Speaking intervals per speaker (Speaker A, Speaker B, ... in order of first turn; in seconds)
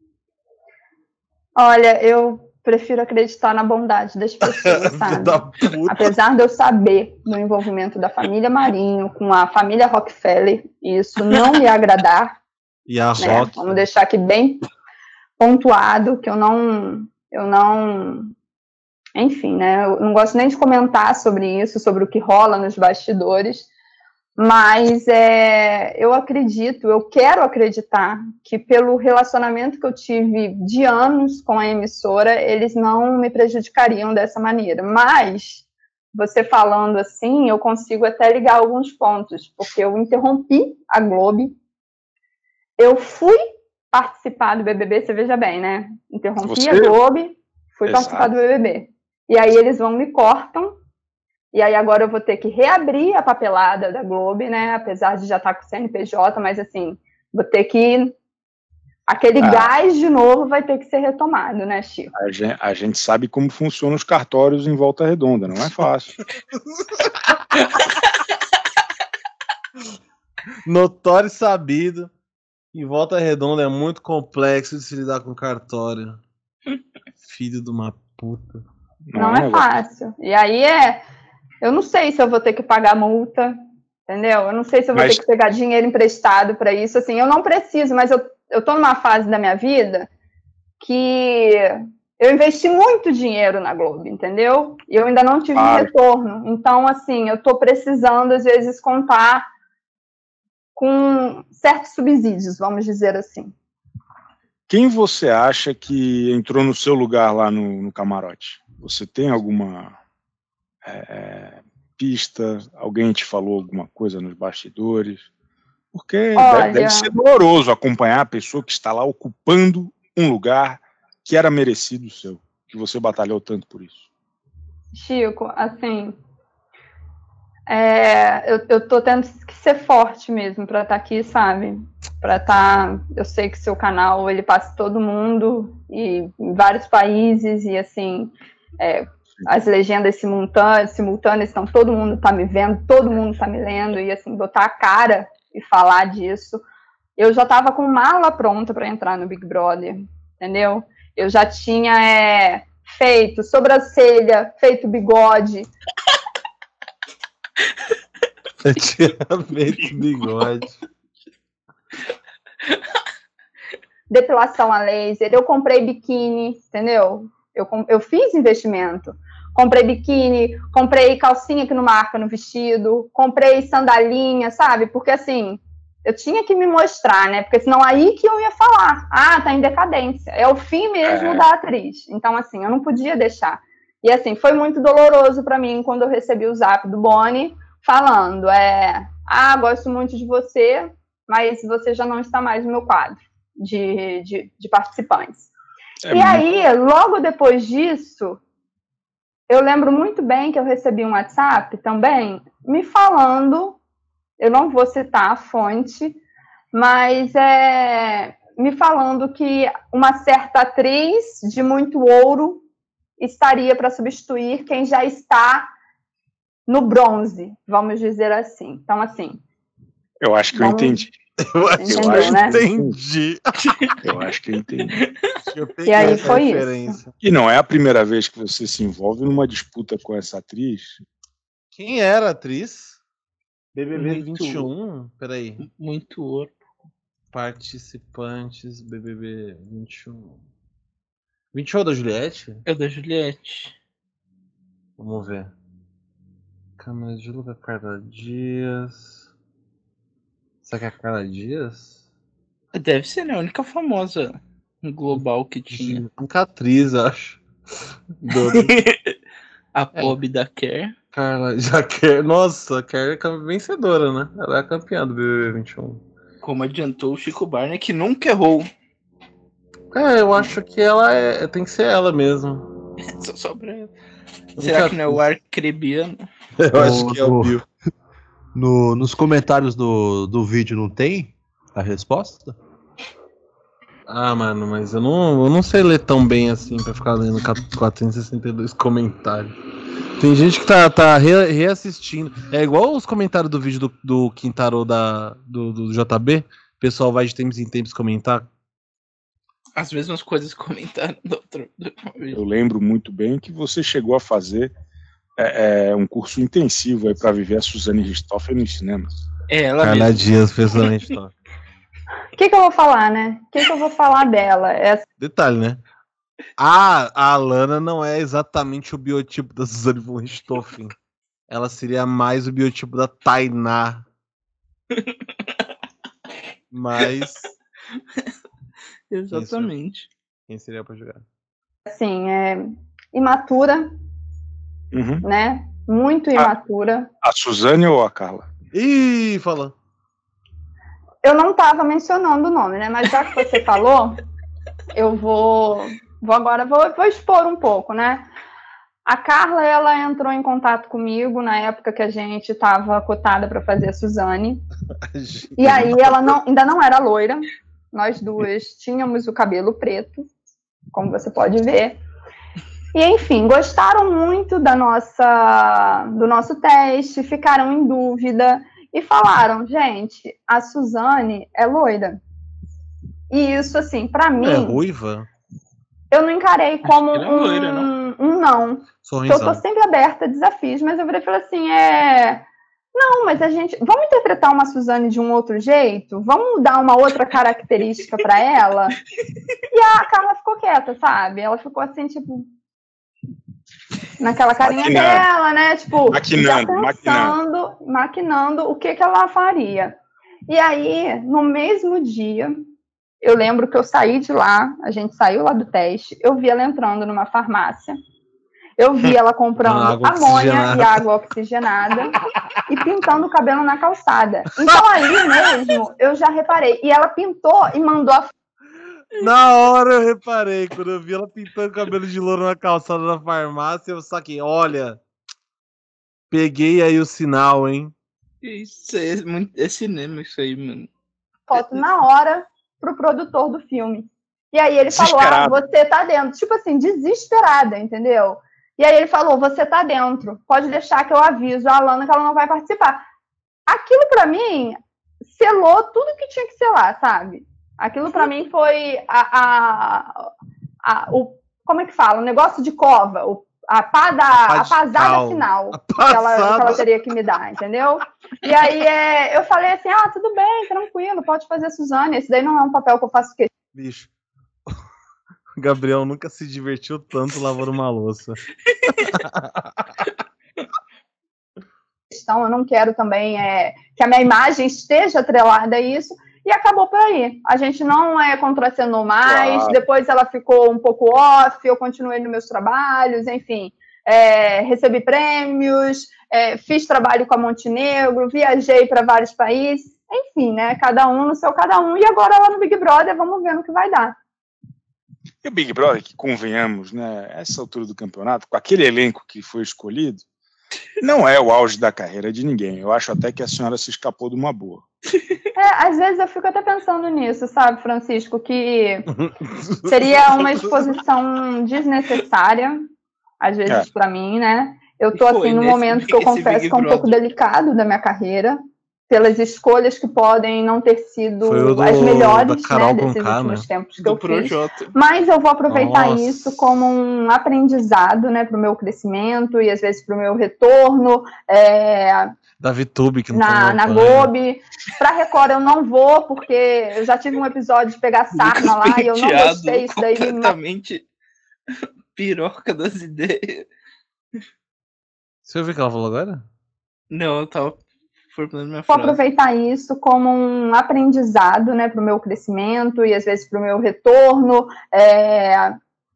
Speaker A: 1.6-12.4, 13.2-14.6, 15.4-18.3, 19.2-23.7, 24.4-41.6, 42.8-50.8, 51.5-58.2, 59.1-62.1, 79.2-81.0, 81.6-90.1, 90.8-99.5, 100.8-103.5, 116.4-117.1, 124.9-126.2, 127.7-146.6, 147.2-155.7, 164.1-195.5, 196.1-198.4, 199.5-203.8, 204.4-206.2, 206.7-212.6, 213.2-215.7, 216.7-219.4, 220.6-221.1, 221.8-222.6, 225.9-227.0, 312.3-315.1, 331.9-333.9, 335.2-337.1, 341.2-344.2, 344.9-348.3, 349.1-354.6, 355.6-360.3, 360.9-362.0, 362.9-372.2, 373.3-374.8, 376.1-389.0, 389.7-392.5, 394.2-400.0, 400.5-402.6, 403.2-408.0, 408.8-418.3, 431.5-443.0, 443.7-450.3, 450.8-463.5, 472.1-494.2, 505.6-509.1, 509.9-518.6, 519.1-532.3, 533.3-540.6, 548.9-555.8
Speaker B: 4.4-6.1, 12.9-13.8, 70.6-72.1, 72.7-76.2, 77.2-78.6, 158.6-160.7, 221.4-223.9, 225.3-227.1, 231.7-233.0, 233.8-235.7, 237.3-240.4, 241.5-242.6, 245.0-245.5, 246.8-249.3, 250.6-252.0, 255.7-257.4, 258.2-258.7, 261.1-266.0, 269.9-272.7, 274.6-275.2, 276.6-277.6, 284.1-289.5, 290.2-298.5, 309.8-311.3, 315.2-315.8, 316.6-320.9, 321.5-324.1, 326.7-327.5, 329.3-329.7, 330.5-331.3, 338.7-339.8, 355.0-356.3, 374.4-375.3, 379.0-379.6, 409.6-411.0, 419.2-425.0, 426.3-427.9, 454.3-456.9, 463.7-464.1, 465.6-470.0, 509.1-510.9, 521.4-523.7, 525.7-526.5, 532.6-534.3, 545.5-546.5
Speaker C: 13.2-13.5, 46.4-47.0, 47.9-48.3, 59.4-59.7, 62.1-66.2, 79.1-79.7, 85.0-85.2, 95.5-95.9, 104.7-110.0, 110.8-115.3, 115.9-124.1, 181.0-181.5, 196.0-196.4, 220.2-221.1, 221.9-223.0, 224.0-225.0, 226.0-226.4, 227.2-231.0, 302.3-304.7, 305.4-309.2, 334.9-335.3, 337.2-338.5, 394.6-395.2, 396.1-397.4, 434.9-435.6, 479.2-479.8, 495.4-500.2, 501.0-504.9
Speaker D: 233.9-234.7, 235.6-236.5, 242.7-243.8, 252.7-256.1, 258.3-259.1, 259.8-260.9, 266.4-268.7, 273.1-273.9, 274.6-276.2, 299.8-302.4, 309.5-311.1, 324.9-325.2, 329.1-330.1, 376.9-377.9, 428.4-430.9, 515.1-517.2, 524.0-524.9, 538.3-541.0, 541.8-543.7, 547.1-549.2
Speaker E: 276.7-277.6, 278.5-282.6